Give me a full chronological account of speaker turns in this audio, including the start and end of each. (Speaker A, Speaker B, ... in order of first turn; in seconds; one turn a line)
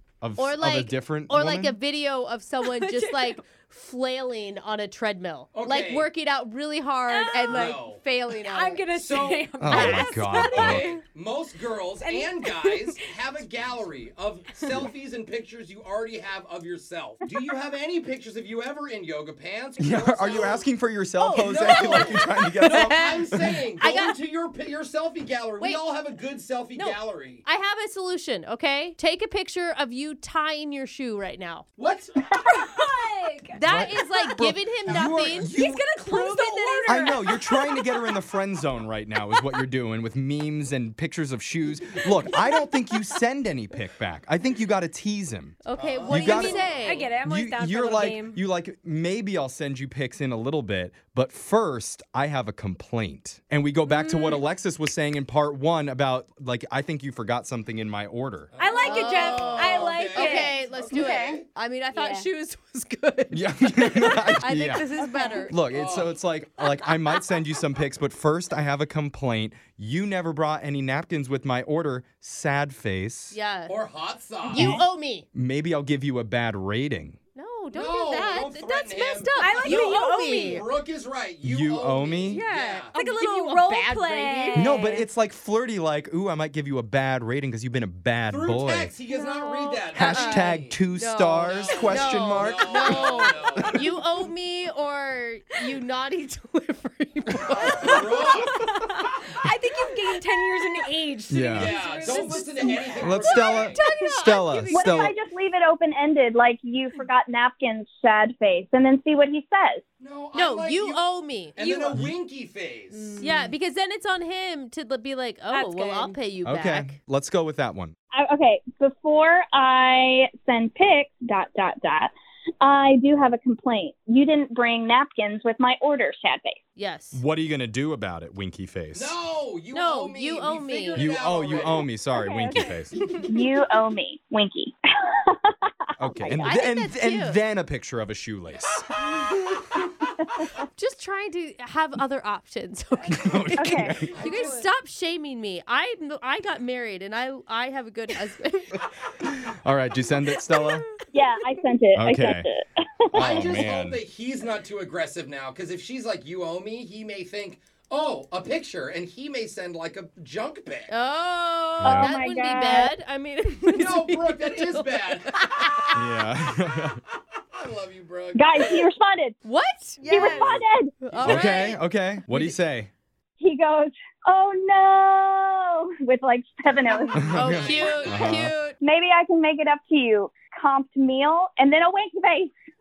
Speaker A: 0.2-1.8
Speaker B: 0.4-8.8
Speaker C: 2.7-3.4
Speaker D: 5.5-6.1
Speaker C: 7.1-7.7
Speaker D: 7.5-8.0
Speaker C: 8.3-11.0
Speaker D: 8.9-20.6
Speaker A: 9.6-10.9
Speaker C: 11.9-13.2
Speaker A: 19.8-23.3
Speaker B: 21.2-24.2
Speaker D: 21.3-27.4
Speaker B: 26.8-31.6
Speaker D: 31.8-32.3
Speaker C: 32.3-33.6
Speaker B: 33.5-37.2
Speaker A: 33.6-35.9
Speaker C: 35.3-38.1
Speaker A: 36.9-46.7
Speaker B: 45.6-47.0
Speaker D: 45.8-47.2
Speaker C: 46.3-48.4
Speaker A: 47.2-58.5
Speaker C: 53.9-54.4
Speaker D: 58.5-61.5
Speaker C: 58.6-60.6
Speaker B: 58.8-65.5
Speaker E: 60.9-61.4
Speaker C: 61.9-62.3
Speaker A: 63.3-64.9
Speaker A: 65.5-73.4
Speaker D: 65.7-66.2
Speaker B: 73.3-73.8
Speaker D: 73.7-74.8
Speaker B: 74.5-75.3
Speaker A: 74.5-77.2
Speaker B: 77.3-80.6
Speaker D: 77.7-82.9
Speaker C: 79.4-80.6
Speaker A: 81.4-82.4
Speaker C: 82.3-85.0
Speaker B: 82.9-85.0
Speaker A: 84.5-88.9
Speaker D: 88.3-90.8
Speaker C: 89.2-89.8
Speaker A: 89.9-92.8
Speaker B: 90.0-98.1
Speaker D: 91.5-93.9
Speaker C: 93.0-93.3
Speaker D: 97.5-98.6
Speaker C: 97.7-104.8
Speaker A: 101.3-105.1
Speaker D: 101.5-103.8
Speaker B: 103.8-104.8
Speaker E: 104.7-109.8
Speaker D: 110.0-111.0
Speaker B: 110.3-111.6
Speaker D: 111.5-113.2
Speaker C: 111.6-112.0
Speaker C: 112.9-113.5
Speaker B: 113.2-117.0
Speaker C: 115.5-116.2
Speaker A: 116.4-117.9
Speaker E: 118.1-126.6
Speaker B: 126.8-127.2
Speaker A: 127.1-129.1
Speaker D: 128.9-131.9
Speaker B: 129.7-131.2
Speaker A: 130.9-133.0
Speaker E: 132.2-132.7
Speaker C: 132.6-133.3
Speaker E: 133.3-135.5
Speaker A: 136.0-138.9
Speaker E: 136.1-136.6
Speaker B: 136.4-137.4
Speaker B: 140.8-143.6
Speaker A: 143.1-144.2
Speaker E: 143.6-144.0
Speaker D: 144.1-144.7
Speaker B: 144.2-148.8
Speaker A: 149.3-150.8
Speaker E: 151.1-153.5
Speaker A: 151.9-152.5
Speaker A: 153.1-154.0
Speaker D: 153.1-160.9
Speaker B: 160.9-166.0
Speaker A: 161.8-162.1
Speaker E: 161.8-162.9
Speaker D: 163.7-165.4
Speaker A: 165.9-167.0
Speaker D: 167.5-168.7
Speaker E: 168.3-169.4
Speaker B: 169.4-172.5
Speaker E: 170.0-171.3
Speaker C: 170.2-170.5
Speaker D: 171.1-171.5
Speaker A: 171.2-172.9
Speaker E: 173.4-182.5
Speaker A: 177.2-178.5
Speaker B: 177.3-178.8
Speaker D: 177.4-178.2